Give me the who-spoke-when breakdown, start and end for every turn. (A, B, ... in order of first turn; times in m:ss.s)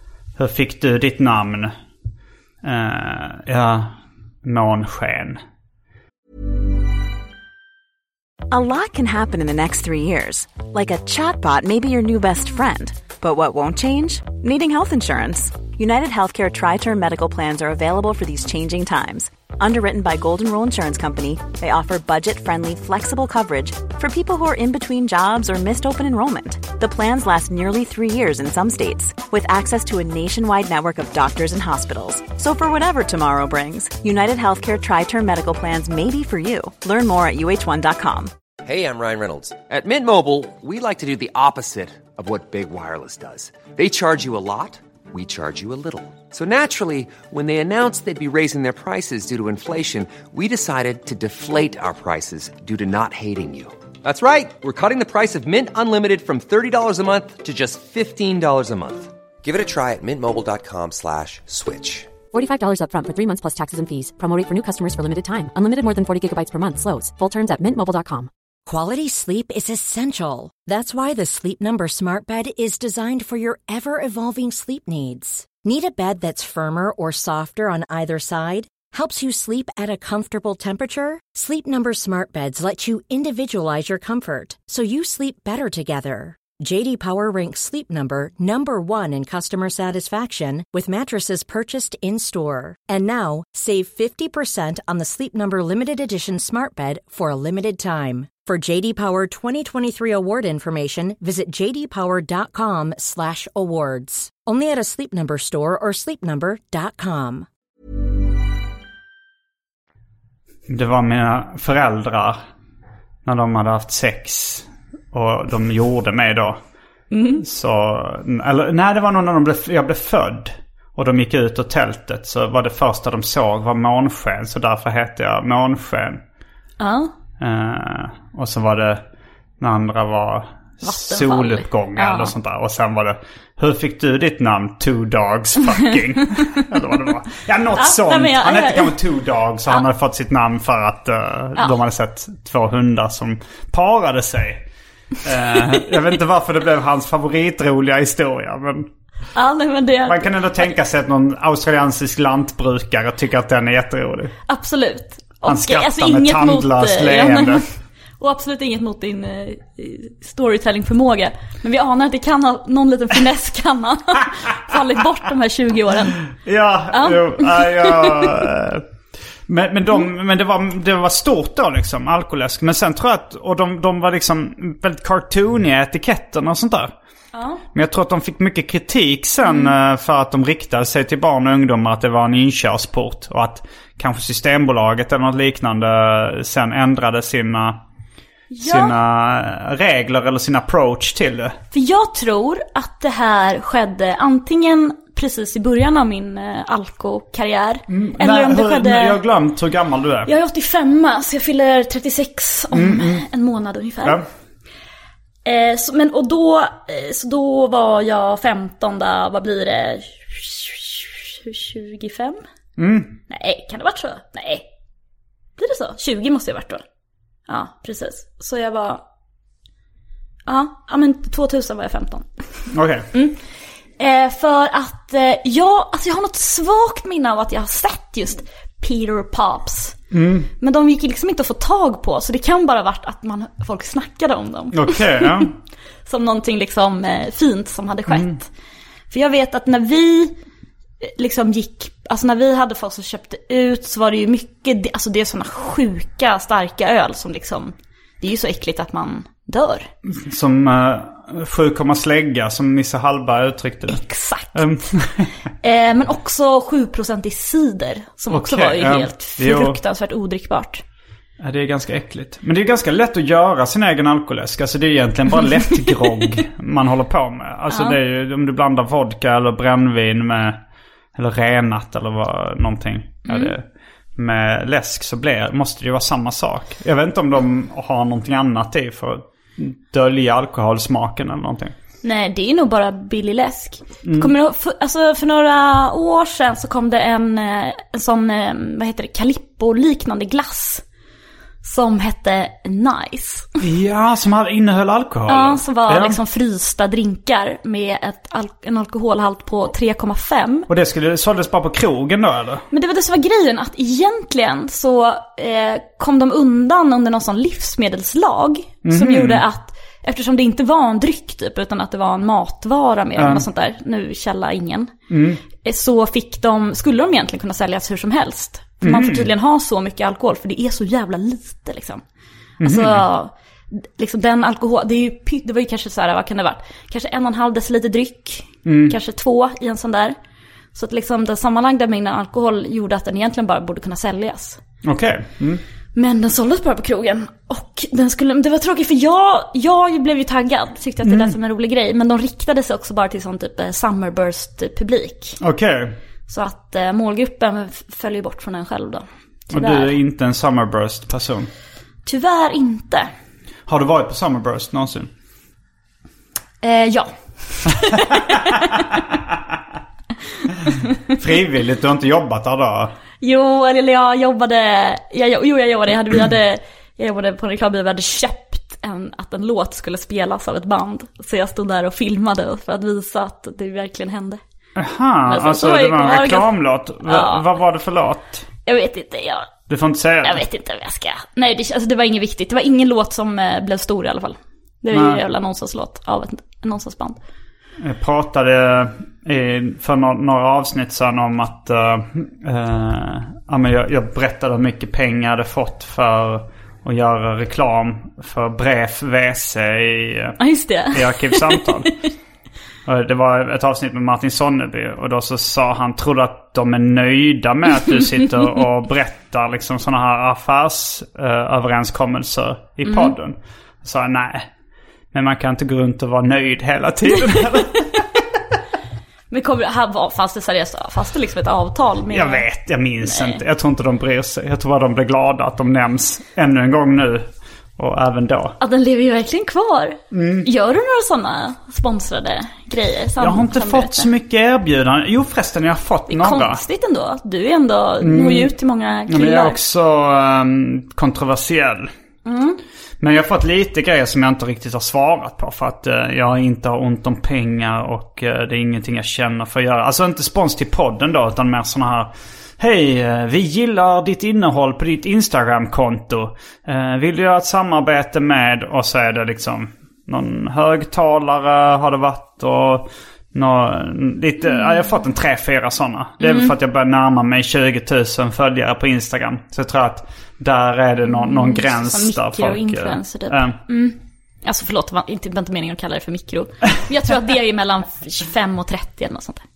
0:00.4-0:01.7 A
0:02.6-0:05.4 A
0:08.5-0:38.3 B
0:38.6-1:02.2 C
1:02.3-1:08.3 D
1:08.7-1:47.5 E
1:50.7-1:52.4 A
1:53.2-1:56.6 A
1:57.1-1:57.4 F
1:57.4-2:06.2 A
2:06.8-2:07.1 F
2:07.4-2:09.0 A
2:09.6-2:24.6 A
2:10.8-2:12.3 F
2:17.8-2:19.0 F
2:25.2-2:28.9 A
2:29.3-2:30.7 F
2:30.1-2:34.3 A
2:34.5-2:37.6 F
2:35.4-2:37.6 A
2:38.2-2:46.2 F
2:46.4-2:48.8 A
2:46.9-2:48.3 F
2:49.5-2:56.9 A
2:57.3-2:57.6 F
2:57.7-3:07.8 A
2:59.4-2:59.8 F
3:08.5-3:09.0 F
3:08.6-3:11.6 A
3:11.7-3:19.2 F
3:17.9-3:20.3 A
3:20.3-3:24.2 F
3:22.7-3:23.2 A
3:25.4-3:32.4 F
3:32.8-3:33.2 A
3:33.3-3:34.7 F
3:35.6-3:36.8 F
3:37.5-3:39.0 F
3:40.5-3:42.3 F
3:42.7-3:43.1 A
3:43.1-3:43.4 F
3:44.0-3:50.0 F
3:50.1-3:50.5 A
3:50.6-3:55.5 F
3:54.7-3:55.6 A
3:56.1-3:58.5 F
3:58.1-3:58.4 A
3:59.1-4:00.4 F
4:01.0-4:09.9 F
4:10.1-4:14.0 A
4:13.9-4:15.0 F
4:14.5-4:15.3 A
4:15.6-4:20.8 F
4:18.3-4:19.8 A
4:21.4-4:30.6 A
4:27.7-4:28.0 F
4:31.2-4:33.6 A
4:33.3-4:33.5 F
4:34.2-4:41.8 A
4:42.0-4:50.8 F
4:44.0-4:44.3 A
4:51.6-4:53.5 F
4:53.6-4:56.2 A
4:55.3-5:00.7 F
5:00.7-5:02.6 A
5:02.7-5:14.9 F
5:08.8-5:09.4 A
5:13.2-5:13.4 A
5:15.1-5:15.4 A
5:15.6-5:22.0 F
5:18.8-5:19.3 A
5:22.6-5:23.1 A
5:22.6-5:30.2 F
5:28.6-5:29.0 A
5:30.7-5:34.6 F
5:34.8-5:35.6 A
5:36.0-5:45.4 F
5:41.0-5:41.4 A
5:45.4-5:46.0 A
5:46.3-5:49.9 F
5:49.5-5:51.5 A
5:52.1-5:53.1 F
5:53.7-5:55.1 A
5:56.6-5:58.7 F
5:58.0-5:58.3 A
6:01.1-6:02.9 A
6:03.2-6:14.4 F
6:14.8-6:18.5 A
6:15.3-6:16.5 F
6:17.1-6:17.5 F
6:18.7-6:19.5 F
6:19.7-6:20.4 A
6:20.2-6:27.2 F
6:24.9-6:25.2 A
6:27.8-6:40.4 A
6:40.4-6:41.9 F
6:40.9-6:41.9 A
6:42.9-6:54.5 A
6:52.9-6:53.1 F
6:55.1-6:58.1 A
6:59.3-7:02.4 F
7:02.1-7:07.3 A
7:03.0-7:03.4 F
7:07.8-7:08.6 A
7:08.6-7:14.1 F
7:10.1-7:10.5 A
7:13.2-7:16.6 A
7:16.1-7:19.6 F
7:18.0-7:18.5 A
7:19.1-7:21.9 A
7:22.2-7:22.6 F
7:23.0-7:53.6 A
7:46.2-7:46.5 F
7:51.1-7:59.4 F